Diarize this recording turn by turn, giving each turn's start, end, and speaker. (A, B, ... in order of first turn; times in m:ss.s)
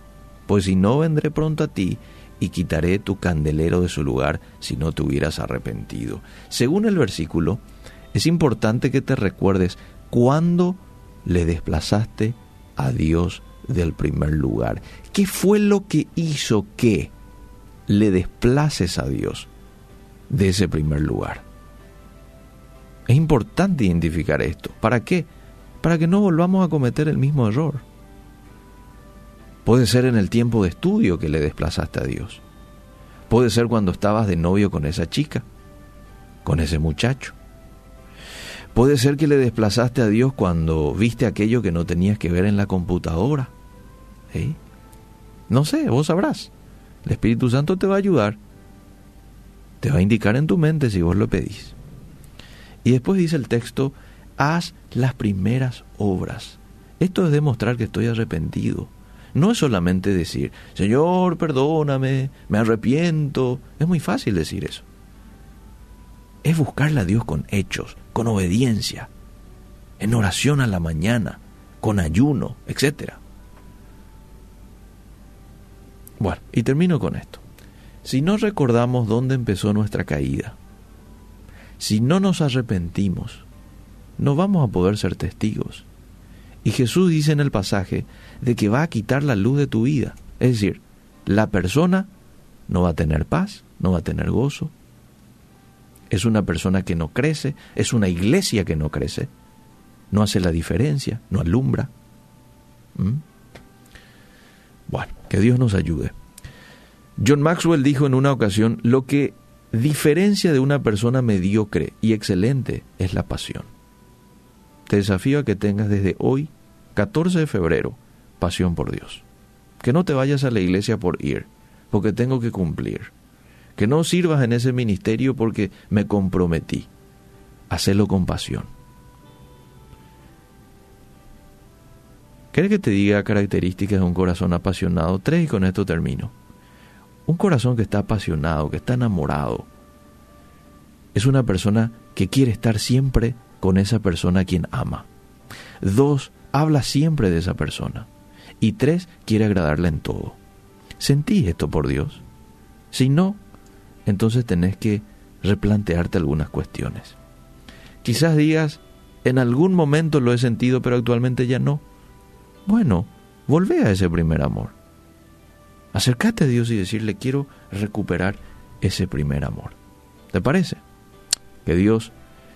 0:00.5-0:07.6 A
0:08.1-0:17.1 A
0:17.9-0:19.5 A
0:20.3-0:21.4 A
0:23.1-0:25.3 A
0:25.8-0:27.8 A
0:29.6-0:32.4 A
0:33.3-0:35.4 A
0:36.4-0:37.3 A
0:38.7-0:43.5 A
0:44.3-0:44.6 A
0:45.5-0:46.5 A
0:47.0-0:48.4 A
0:49.8-0:51.8 A
0:52.8-1:04.9 A
1:06.4-1:09.1 A
1:10.0-1:13.2 A
1:16.2-1:17.4 A
1:18.0-1:20.6 A
1:21.8-1:23.4 A
1:24.2-1:25.9 A
1:26.6-1:32.1 A
1:32.7-1:34.7 A
1:36.1-1:39.3 A
1:40.1-1:41.9 A
1:42.9-1:43.2 A
1:44.9-1:46.1 A
1:47.2-1:53.7 A
1:54.9-1:59.2 A
1:59.8-2:03.1 A
2:03.8-2:06.9 A
2:07.7-2:08.7 A
2:12.5-2:16.3 A
2:17.2-2:19.7 A
2:21.1-2:25.1 A
2:25.8-2:28.1 A
2:28.6-2:30.4 A
2:31.0-2:32.2 A
2:32.9-2:33.4 A
2:34.0-2:37.2 A
2:38.0-2:41.8 A
2:42.6-2:44.7 A
2:45.9-2:49.8 A
2:50.3-2:50.8 A
2:51.6-2:52.1 A